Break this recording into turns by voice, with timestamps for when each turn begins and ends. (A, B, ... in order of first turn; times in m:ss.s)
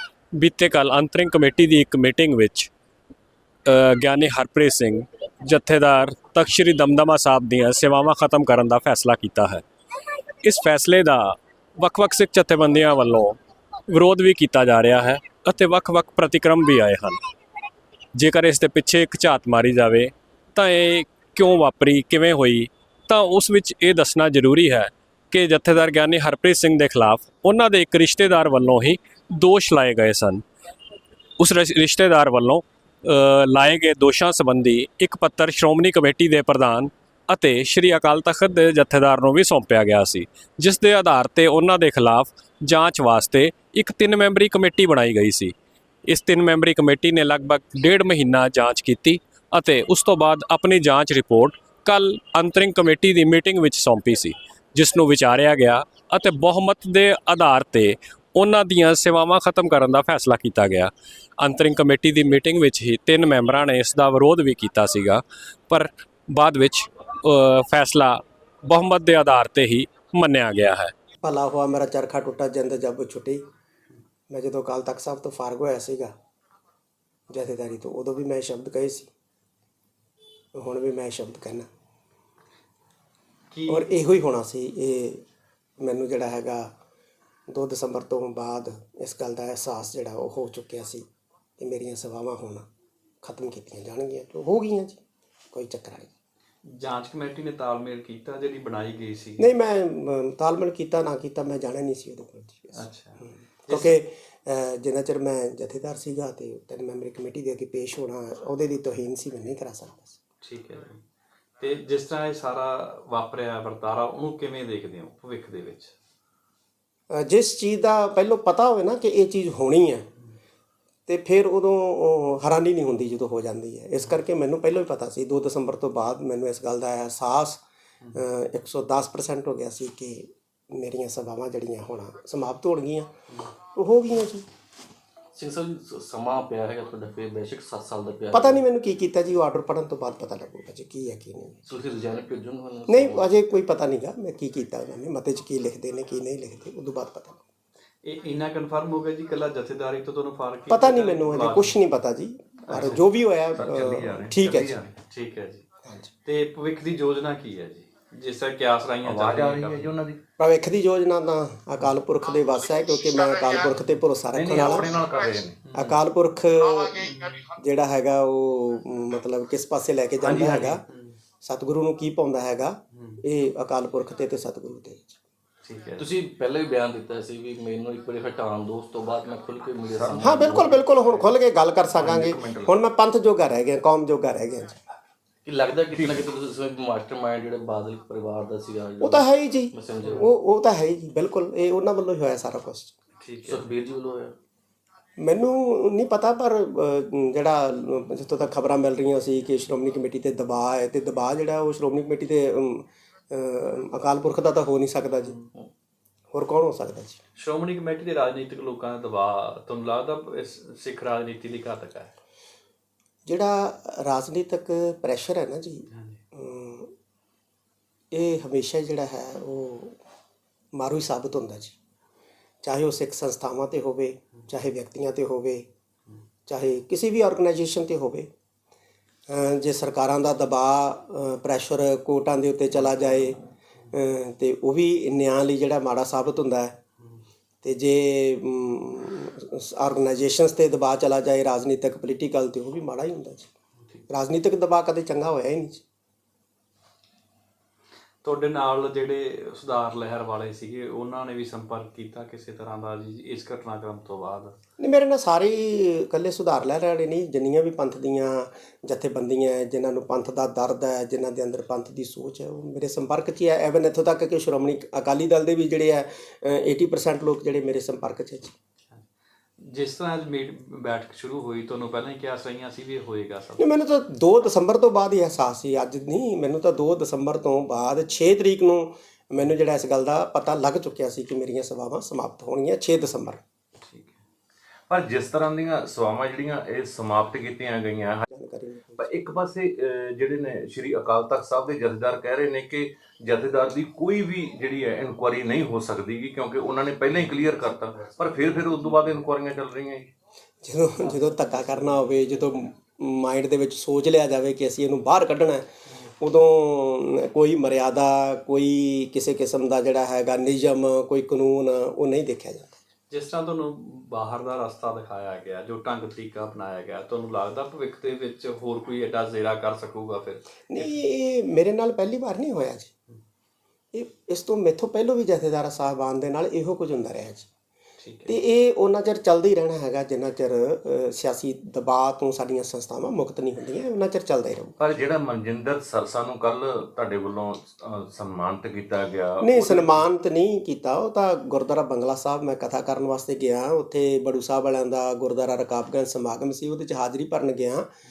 0:00.4-0:02.7 A
0:03.6-0:09.6 A
0:10.4-0:13.4 A
0:13.9-0:17.2 A
0:18.2-0:30.4 A
0:31.4-0:45.5 A
0:46.1-1:10.9 A
1:11.2-1:13.4 B
1:14.3-1:16.1 B
1:17.3-1:19.1 B
1:20.5-1:21.7 B
1:23.5-1:23.9 C
1:23.7-1:25.2 B
1:25.8-1:26.7 B
1:27.5-1:31.0 B
1:31.6-1:32.7 B
1:33.2-1:35.0 B
1:35.5-1:36.1 B
1:36.6-1:39.5 C
1:39.4-1:50.1 B
1:42.7-1:44.0 C
1:50.4-1:51.0 C
1:51.6-1:55.9 C
1:57.1-2:00.1 B
2:01.1-2:07.6 B
2:08.1-2:13.1 B
2:13.6-2:14.4 B
2:15.3-2:18.6 D
2:18.3-2:21.6 B
2:21.7-2:23.3 D
2:22.9-2:27.4 B
2:28.0-2:31.8 C
2:30.7-2:34.8 B
2:32.7-2:33.0 C
2:33.5-2:35.0 E
2:35.0-2:35.6 C
2:35.8-2:36.1 B
2:36.2-2:40.0 C
2:39.0-2:40.2 E
2:40.4-2:45.0 B
2:44.3-2:45.6 E
2:45.6-2:46.0 C
2:45.7-2:50.8 B
2:47.0-2:47.4 C
2:50.2-2:50.8 E
2:50.9-2:51.2 C
2:51.4-2:55.1 B
2:52.9-2:53.2 C
2:55.6-2:56.1 C
2:56.0-3:00.8 D
2:59.9-3:00.2 E
3:00.2-3:04.8 B
3:02.0-3:02.7 E
3:05.4-3:10.3 D
3:05.9-3:06.3 E
3:09.0-3:12.9 B
3:13.2-3:13.6 C
3:13.4-3:14.4 D
3:15.2-3:25.4 B
3:26.3-3:27.2 B
3:27.4-3:32.1 C
3:33.2-3:36.9 B
3:35.9-3:36.2 C
3:38.1-3:40.0 B
3:40.7-3:41.8 B
3:42.6-3:45.7 B
3:46.5-3:48.3 B
3:49.3-3:53.4 B
3:53.9-3:56.8 B
3:57.6-4:03.5 B
4:04.1-4:05.8 B
4:08.2-4:14.6 C
4:14.8-4:28.5 B
4:29.6-4:33.8 C
4:33.6-4:43.4 B
4:43.8-4:44.2 C
4:44.9-4:48.2 E
4:48.3-4:49.0 B
4:49.0-5:00.1 E
5:00.6-5:05.7 B
5:01.2-5:02.1 D
5:06.2-5:12.8 B
5:13.1-5:21.0 C
5:20.7-5:22.9 B
5:23.9-5:27.5 B
5:28.0-5:28.4 C
5:28.2-5:34.8 B
5:34.8-5:40.0 E
5:39.4-5:47.9 B